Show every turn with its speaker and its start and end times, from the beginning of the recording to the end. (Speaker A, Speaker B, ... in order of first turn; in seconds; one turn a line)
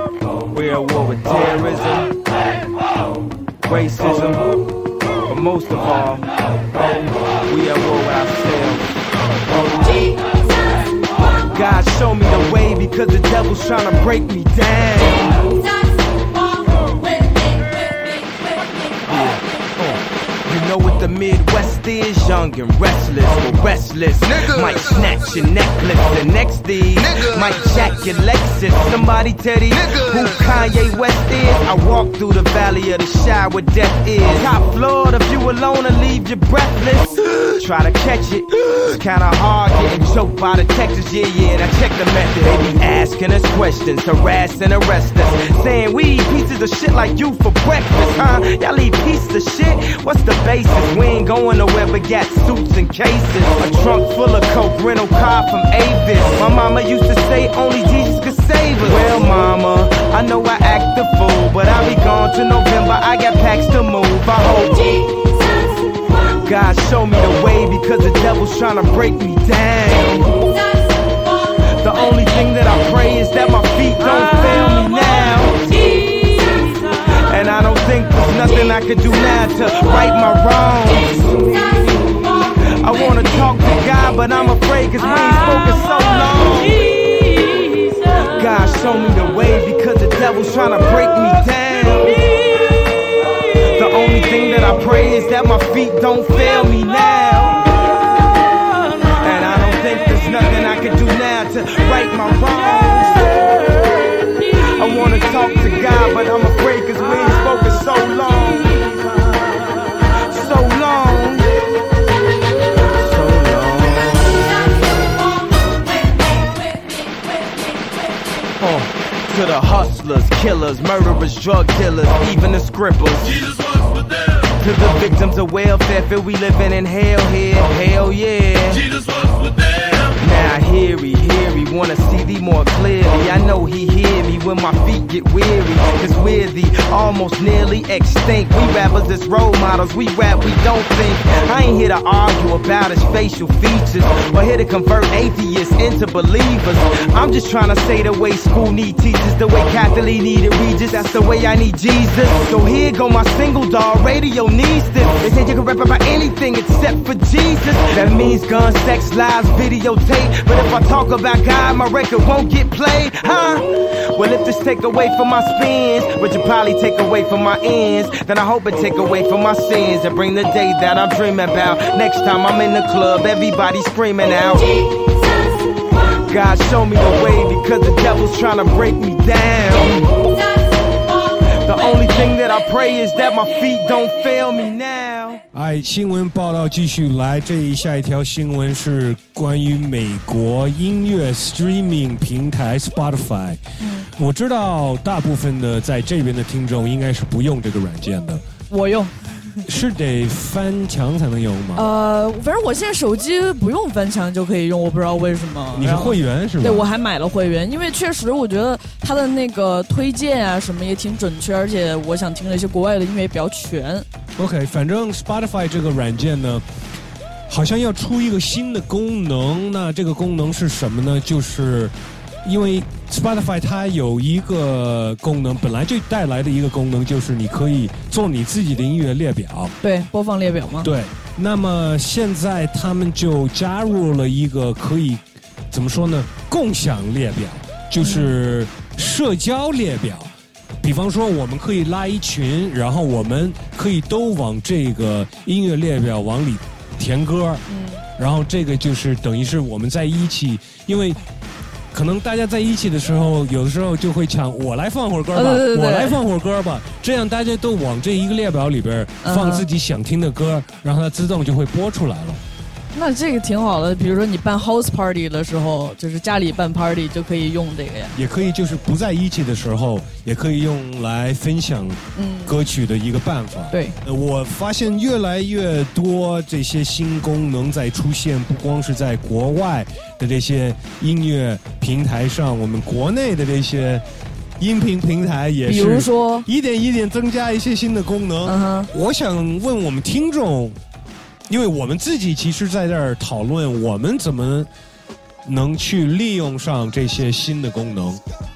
Speaker A: 0.5-2.1
Speaker A: 3.6-4.5
Speaker A: 5.3-6.3
Speaker A: 7.5-9.0
Speaker A: 11.5-15.4
Speaker A: 19.1-65.0
Speaker A: 66.3-70.3
Speaker A: 71.8-75.7
Speaker A: 77.3-81.6
Speaker A: 82.8-87.0
Speaker A: 88.3-92.3
Speaker A: 93.8-97.6
Speaker A: 99.2-103.6
Speaker A: 104.7-109.0
Speaker A: 110.3-111.5
Speaker A: 113.0-114.6
Speaker A: 118.6-123.3
Speaker A: 124.6-128.9
Speaker A: 130.2-174.8
Speaker A: 176.3-180.3
Speaker A: 181.6-185.4
Speaker B: 185.5-193.6
Speaker C: 193.8-194.1
Speaker B: 194.2-198.4
Speaker C: 198.7-199.6
Speaker B: 199.7-201.9
Speaker C: 201.8-214.1
Speaker B: 205.7-206.9
Speaker B: 214.4-216.7
Speaker B: 217.5-229.8
Speaker C: 229.8-230.9
Speaker B: 230.8-247.6
Speaker C: 238.0-238.4
Speaker C: 247.7-248.0
Speaker B: 248.2-251.2
Speaker B: 251.9-262.4
Speaker C: 255.3-256.2
Speaker C: 259.2-259.6
Speaker C: 262.9-268.1
Speaker B: 268.1-284.0
Speaker C: 272.2-272.5
Speaker C: 273.7-274.0
Speaker B: 284.6-290.8
Speaker C: 285.7-286.5
Speaker C: 288.4-288.9
Speaker B: 291.5-294.7
Speaker B: 295.4-298.2